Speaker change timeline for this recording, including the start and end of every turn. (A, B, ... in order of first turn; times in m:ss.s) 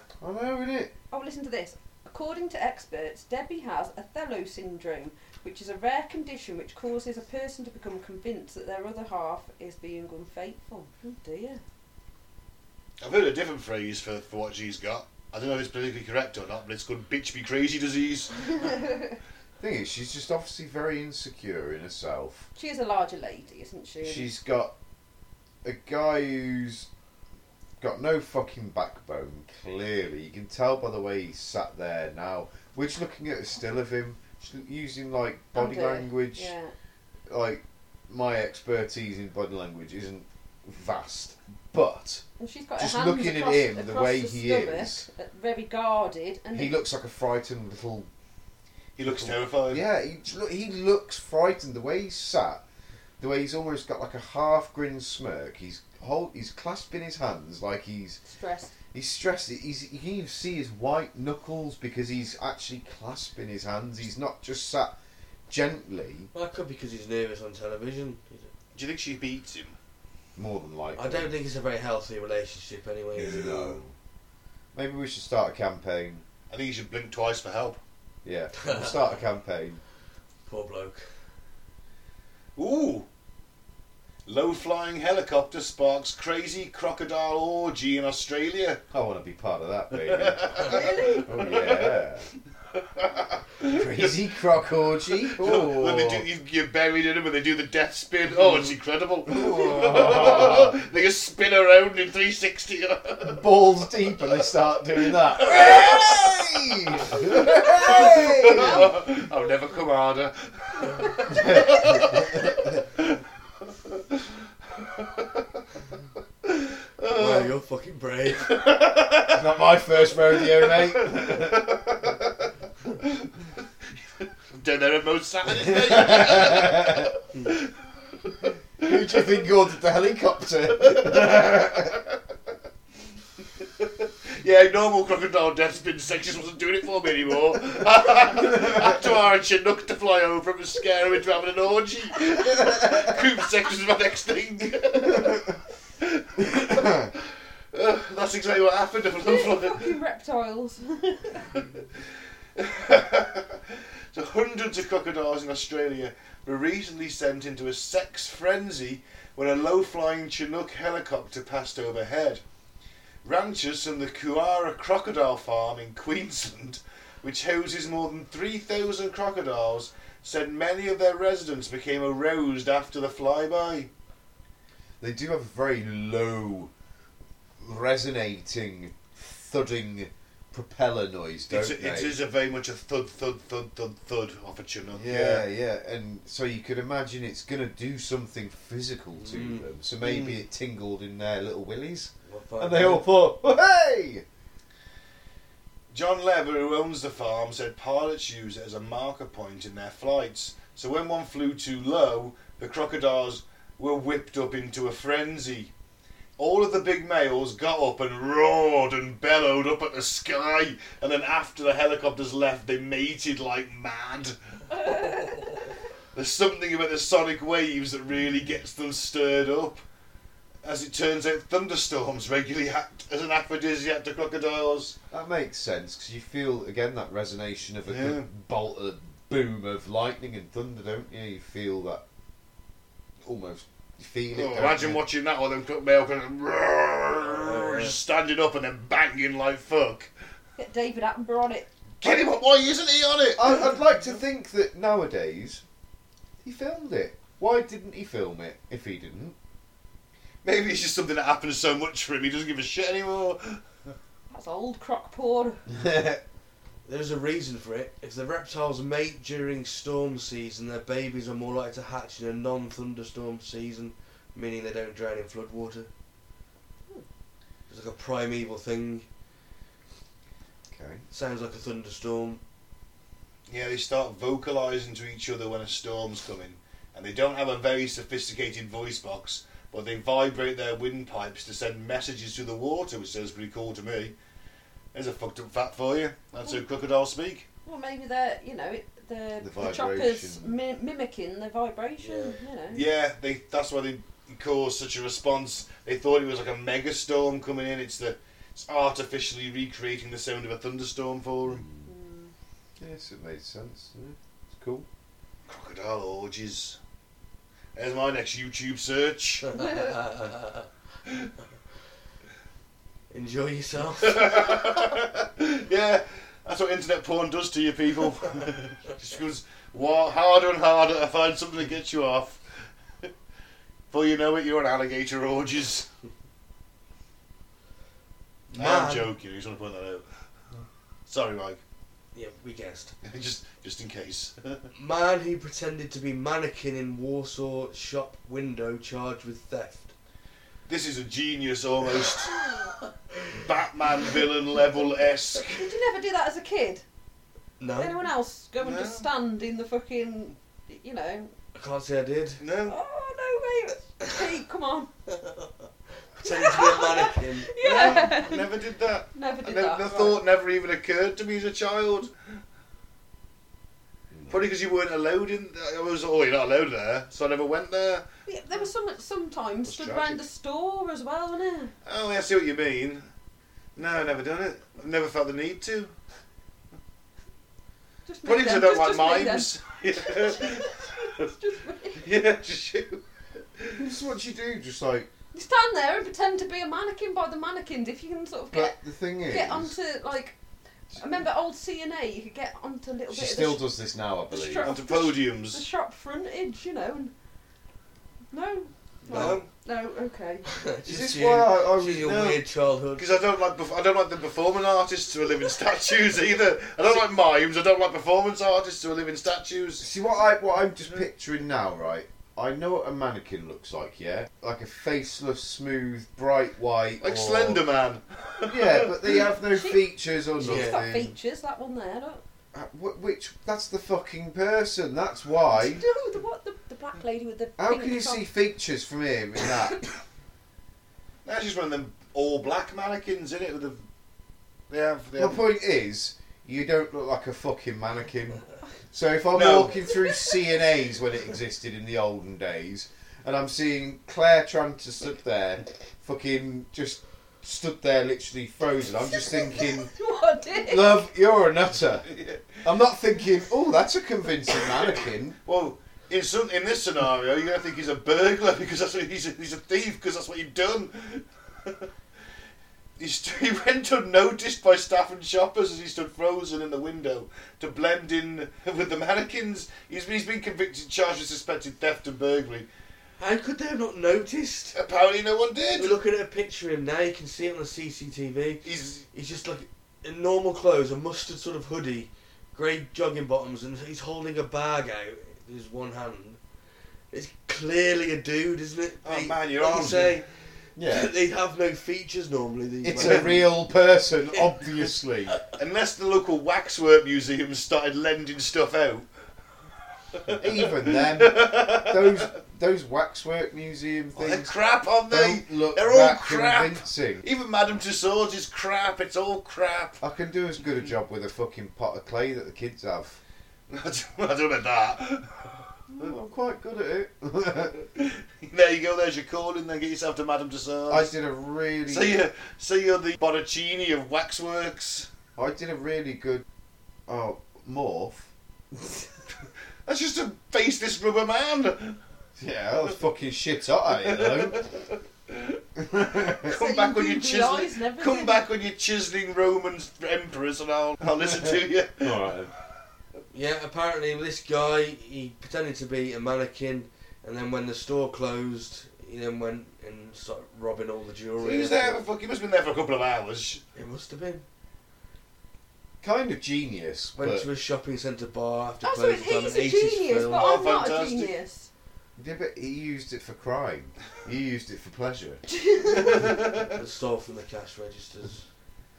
0:00.2-0:00.9 A
0:01.1-0:11.6 B
0:13.0-0:18.8 C
0:18.5-0:19.2 B
0:19.6-0:22.5 A
0:22.6-0:24.3 B
0:24.0-0:24.7 A
0:25.6-0:26.9 A
0:27.8-0:36.5 A
0:35.5-0:36.7 B
0:37.3-0:42.2 A
0:42.4-0:46.8 B
0:42.8-0:45.1 A
0:46.5-0:48.1 A
0:49.0-0:49.8 C
0:49.0-0:52.6 A
0:53.2-0:58.2 A
0:58.2-0:58.7 B
0:58.9-1:04.9 A
1:05.5-1:06.3 A
1:06.3-1:08.5 D
1:08.7-1:09.8 C
1:10.4-1:11.3 A
1:11.0-1:13.8 D
1:13.2-1:13.9 A
1:14.7-1:16.2 A
1:16.5-1:17.8 C
1:18.2-1:19.8 A
1:18.6-1:19.1 D
1:20.4-1:21.0 D
1:22.6-1:23.0 C
1:24.2-1:28.8 C
1:28.9-1:32.3 A
1:29.9-1:32.0 C
1:30.6-1:31.3 B
1:32.7-1:34.1 C
1:33.6-1:36.2 A
1:35.3-1:43.4 C
1:39.3-1:40.8 A
1:43.2-1:49.0 A
1:45.1-1:55.6 C
1:51.3-1:52.8 A
1:56.5-1:57.5 C
1:57.1-1:58.5 D
1:58.3-1:59.5 C
1:59.3-2:01.7 A
2:00.1-2:02.5 C
2:03.0-2:03.3 C
2:04.5-2:07.7 C
2:05.7-2:07.1 A
2:08.8-2:12.0 A
2:08.8-2:09.3 C
2:10.7-2:12.1 C
2:13.8-2:30.0 C
2:29.2-2:31.7 B
2:32.6-2:42.4 C
2:43.2-2:53.9 C
2:55.0-2:56.7 A
2:57.6-3:02.1 A
3:01.5-3:05.4 C
3:04.9-3:14.2 A
3:09.2-3:09.7 D
3:10.0-3:10.4 C
3:12.3-3:13.0 D
3:15.9-3:25.7 C
3:26.4-3:34.9 C
3:34.7-3:35.5 B
3:36.1-3:39.8 C
3:40.6-3:45.0 C
3:45.1-3:52.0 A
3:47.8-3:48.3 C
3:53.2-3:55.0 A
3:54.3-4:00.1 C
3:57.2-3:57.9 D
4:00.6-4:01.7 B
4:02.0-4:03.6 C
4:03.4-4:05.6 A
4:06.4-4:09.4 A
4:10.4-4:13.9 C
4:14.3-4:15.6 B
4:15.7-4:16.2 A
4:16.8-4:25.9 D
4:27.7-4:29.0 D
4:30.7-4:31.0 A
4:31.1-4:32.4 D
4:33.5-4:44.1 C
4:44.9-4:47.5 C
4:47.6-4:52.9 B
4:49.4-4:50.5 A
4:52.0-4:52.4 D
4:52.7-5:01.6 C
5:01.4-5:01.9 A
5:01.8-5:02.3 B
5:02.8-5:04.9 A
5:05.5-5:06.8 C
5:07.8-5:09.6 C
5:09.5-5:10.7 D
5:09.6-5:10.0 B
5:13.1-5:14.6 D
5:14.0-5:22.5 C
5:23.9-5:25.9 C
5:28.5-5:29.1 D
5:28.5-5:30.1 C
5:31.1-5:31.6 C
5:32.1-5:32.9 D
5:33.0-5:34.7 C
5:34.7-5:39.9 D
5:40.7-5:42.3 C
5:42.7-5:43.4 D
5:43.4-5:45.6 C
5:45.5-5:46.8 B
5:47.6-5:48.0 D
5:47.8-5:51.3 B
5:48.6-5:49.1 C
5:51.5-5:52.4 D
5:52.4-5:52.8 C
5:52.6-5:54.9 B
5:55.1-5:55.5 D
5:56.2-5:57.6 D
5:56.2-5:58.5 B
5:57.6-6:02.3 C
5:59.1-6:00.2 B
6:04.1-6:04.4 A
6:04.3-6:08.0 C
6:08.3-6:11.7 B
6:09.6-6:10.2 C
6:11.8-6:13.0 C
6:13.8-6:15.9 C
6:18.0-6:22.0 B
6:18.2-6:21.2 C
6:22.0-6:23.0 C
6:23.6-6:23.9 C
6:23.8-6:25.1 A
6:25.3-6:28.8 B
6:28.5-6:29.7 A
6:29.3-6:30.4 B
6:30.9-6:33.6 B
6:33.1-6:34.7 A
6:34.3-6:37.1 B
6:34.6-6:35.6 C
6:38.3-6:40.4 B
6:39.1-6:39.5 C
6:39.1-6:39.4 D
6:40.4-6:43.1 D
6:40.8-6:42.3 A
6:42.0-6:42.4 C
6:43.0-6:49.8 C
6:49.8-6:57.6 A
6:57.0-6:59.2 C
6:58.5-7:01.1 A
6:59.5-6:59.8 B
7:00.4-7:02.2 B
7:00.4-7:00.8 D
7:02.5-7:05.8 A
7:05.5-7:08.3 B
7:07.6-7:09.9 A
7:11.2-7:13.8 C
7:14.7-7:15.4 C
7:15.2-7:29.9 A
7:19.3-7:19.9 C
7:19.9-7:20.3 B
7:29.2-7:31.0 B
7:30.6-7:32.1 A
7:31.8-7:32.6 C
7:32.6-7:35.4 A
7:35.4-7:41.9 C
7:43.0-7:52.7 C
7:53.2-7:54.8 D
7:54.7-7:56.0 C
7:55.8-8:06.4 D
7:58.6-7:59.1 C
8:07.1-8:13.5 D
8:09.0-8:10.2 C
8:10.8-8:11.1 A
8:12.8-8:15.4 A
8:13.0-8:13.3 C
8:14.3-8:14.6 D
8:15.6-8:19.1 C
8:20.1-8:22.3 C
8:20.3-8:24.5 A
8:24.1-8:30.0 C
8:25.1-8:27.2 A
8:30.0-8:33.2 A
8:33.7-8:36.0 C
8:35.9-8:37.8 A
8:37.9-8:41.1 C
8:40.9-8:42.2 A
8:41.9-8:45.1 C
8:45.4-8:46.4 A
8:47.1-8:48.3 A
8:49.8-8:52.0 C
8:52.4-8:54.6 A
8:54.0-8:55.6 C
8:55.8-8:56.6 A
8:56.4-9:02.3 C
8:56.4-8:58.4 B
9:02.0-9:02.5 A
9:03.3-9:12.0 D
9:11.4-9:13.6 C
9:13.8-9:14.4 D
9:16.0-9:17.5 A
9:17.2-9:20.5 D
9:18.8-9:21.7 B
9:20.3-9:21.3 C
9:22.2-9:25.4 A
9:25.5-9:26.3 B
9:26.0-9:28.5 D